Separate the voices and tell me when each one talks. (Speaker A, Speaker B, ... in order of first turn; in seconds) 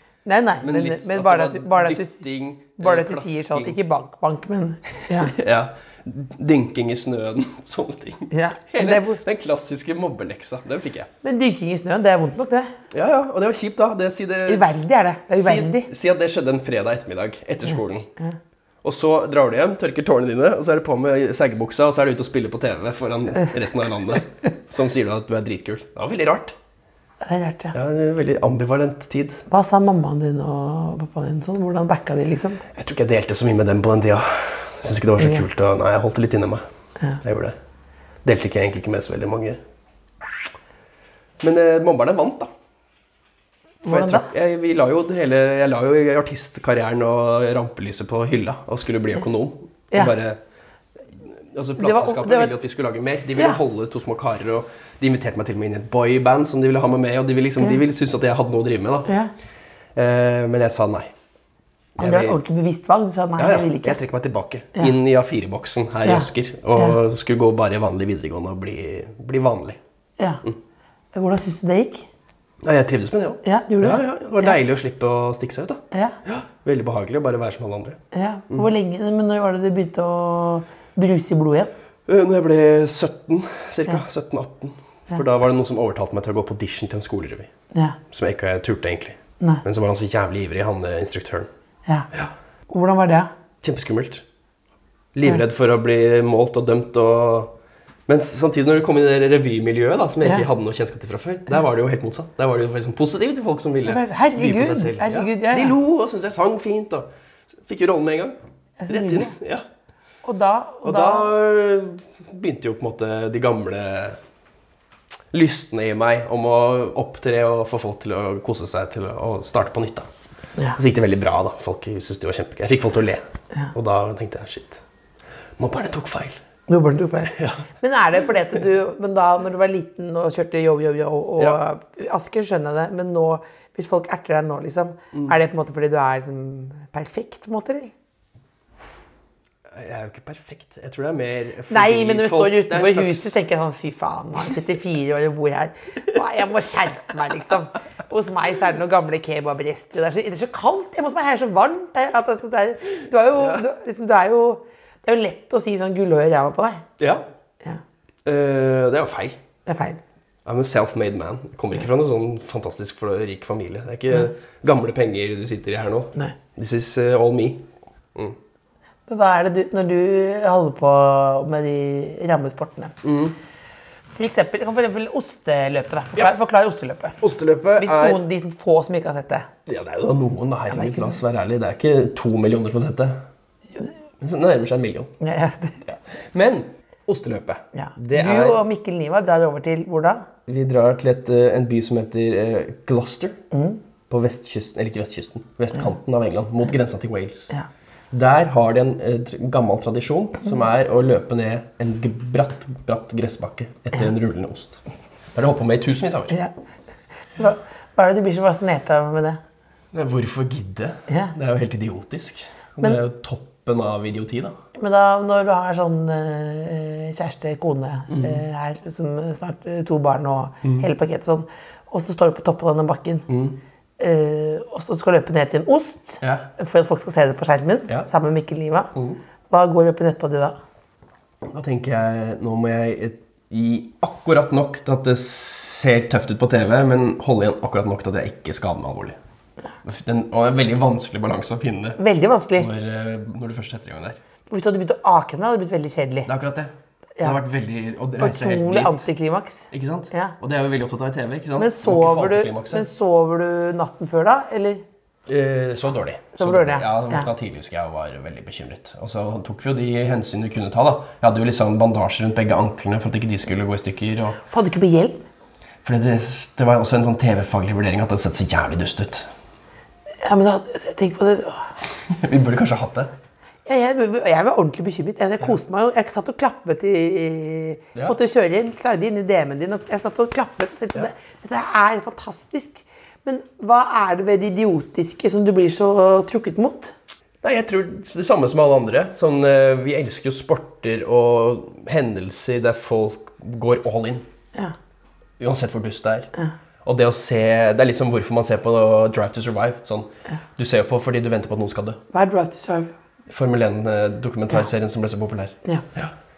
Speaker A: 0.2-2.2, 2.8-5.3, 8.3-9.2, 11.2-12.7, 14.5-15.9, 27.2-27.8, 29.5-32.6, 35.2-35.4, 43.8-44.3, 51.8-52.5, 62.0-64.0, 66.0-66.9, 71.1-72.1, 73.4-74.5, 78.1-81.7, 92.7-93.3, 103.8-105.8, 108.8-109.3, 110.2-111.3, 126.7-137.9, 141.7-156.8, 159.7-160.0, 169.1-172.9, 174.2-177.2, 177.8-179.5, 180.7-181.2, 185.2-185.8, 187.7-190.2, 193.5-193.8, 207.3-209.4, 211.1-211.3, 214.7-223.3, 224.0-228.9, 229.5-230.6, 242.0-242.7, 244.5-246.3, 248.2-250.3, 251.6-254.8, 256.4-257.3, 264.5-265.2, 270.2-271.7, 273.6-286.9, 302.1-302.9
Speaker B: 0.6-3.8, 5.1-11.1, 12.9-14.8, 15.4-18.1, 18.8-26.6, 27.7-29.4, 32.7-36.6, 37.2-37.6, 38.2-39.6, 41.4-42.5, 43.9-50.4, 51.1-59.1, 59.9-61.1, 62.0-62.4, 63.4-69.8, 72.6-78.0, 82.1-87.5, 88.1-91.5, 93.6-94.2, 95.1-97.5, 98.1-107.1, 107.6-109.7, 110.8-114.2, 115.3-120.1, 120.8-124.8, 125.6-126.4, 127.3-127.6, 139.7-143.3, 153.3-153.6, 157.0-157.2, 158.2-159.4, 160.4-168.4, 173.0-173.3, 177.2-178.2, 179.7-183.2, 184.2-185.1, 185.8-188.6, 190.5-193.4, 194.1-197.5, 198.1-204.8, 205.3-206.3, 209.9-214.6, 218.1-218.4, 223.3-223.6, 226.2-226.5, 228.9-229.2, 231.4-239.2, 239.8-242.0, 242.6-244.2, 246.2-249.1, 249.7-252.9, 255.3-264.4, 265.8-269.3, 272.1-273.1, 287.4-294.2, 295.4-296.3, 296.8-302.0, 303.3-306.1